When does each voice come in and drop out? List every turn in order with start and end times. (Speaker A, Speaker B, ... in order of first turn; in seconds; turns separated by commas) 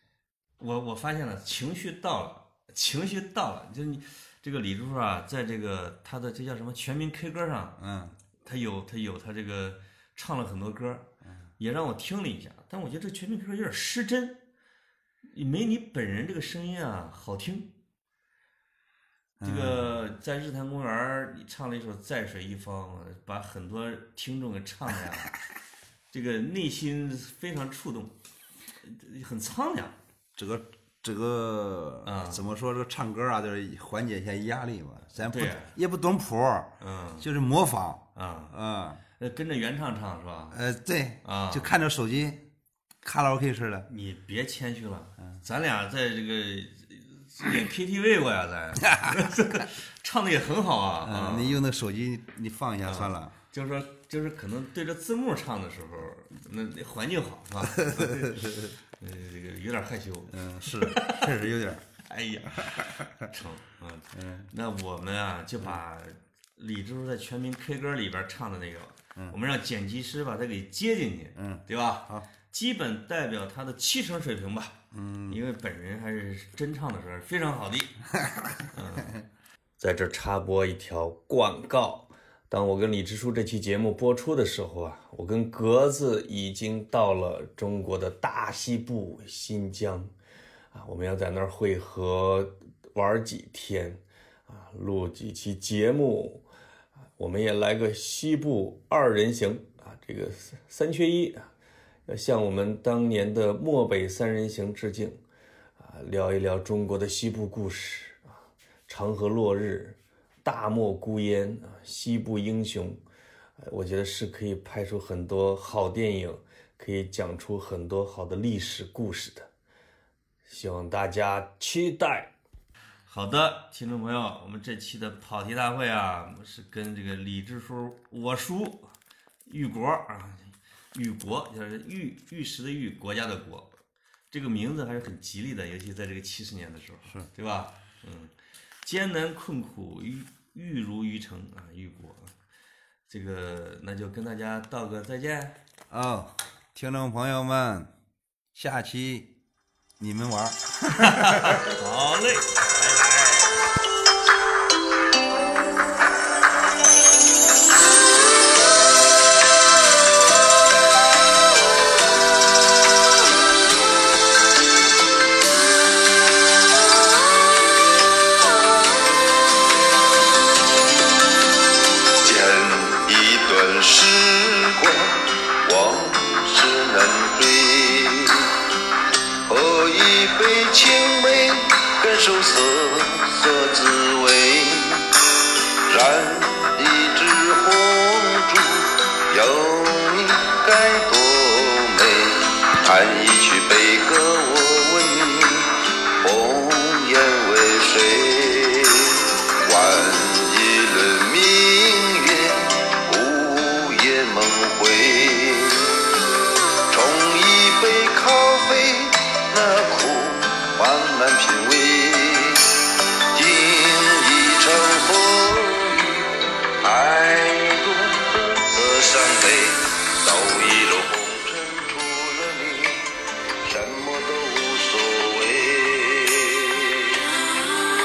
Speaker A: 0.6-7.8, Speaker B: 7.8-8.1, Speaker A: 8.4-11.1, Speaker A: 11.6-14.4, Speaker A: 15.3-17.7, Speaker B: 19.4-20.0, Speaker A: 19.4-25.3, Speaker A: 26.1-28.1, Speaker A: 28.8-29.9, Speaker B: 30.4-39.0, Speaker A: 32.0-32.4, Speaker A: 35.1-35.7, Speaker A: 36.8-37.3, Speaker A: 38.1-38.5, Speaker A: 39.2-40.6, Speaker B: 40.5-42.4, Speaker A: 41.2-41.7, Speaker B: 43.0-43.9, Speaker A: 43.9-51.6, Speaker B: 49.0-49.2, Speaker B: 51.0-53.4, Speaker A: 52.8-58.4, Speaker B: 57.7-58.7, Speaker A: 59.0-61.3, Speaker B: 60.3-61.9, Speaker A: 62.0-78.0, Speaker B: 62.6-63.2, Speaker B: 64.1-64.5, Speaker B: 71.3-72.3, Speaker B: 74.9-75.4, Speaker B: 78.2-79.2, Speaker A: 78.7-79.2, Speaker A: 79.8-90.1, Speaker A: 90.7-96.4, Speaker A: 97.2-101.5, Speaker A: 102.1-105.2, Speaker A: 105.8-108.3, Speaker A: 108.9-113.0, Speaker A: 113.6-119.5, Speaker A: 120.5-122.3, Speaker A: 123.1-128.9, Speaker A: 129.4-142.3, Speaker A: 143.1-145.6, Speaker B: 145.9-147.9, Speaker B: 148.5-149.3, Speaker B: 150.0-151.8, Speaker A: 150.9-153.7, Speaker C: 172.2-178.5, Speaker C: 179.5-185.1, Speaker C: 185.9-205.9, Speaker C: 206.9-212.6, Speaker C: 213.3-216.3, Speaker C: 216.8-227.2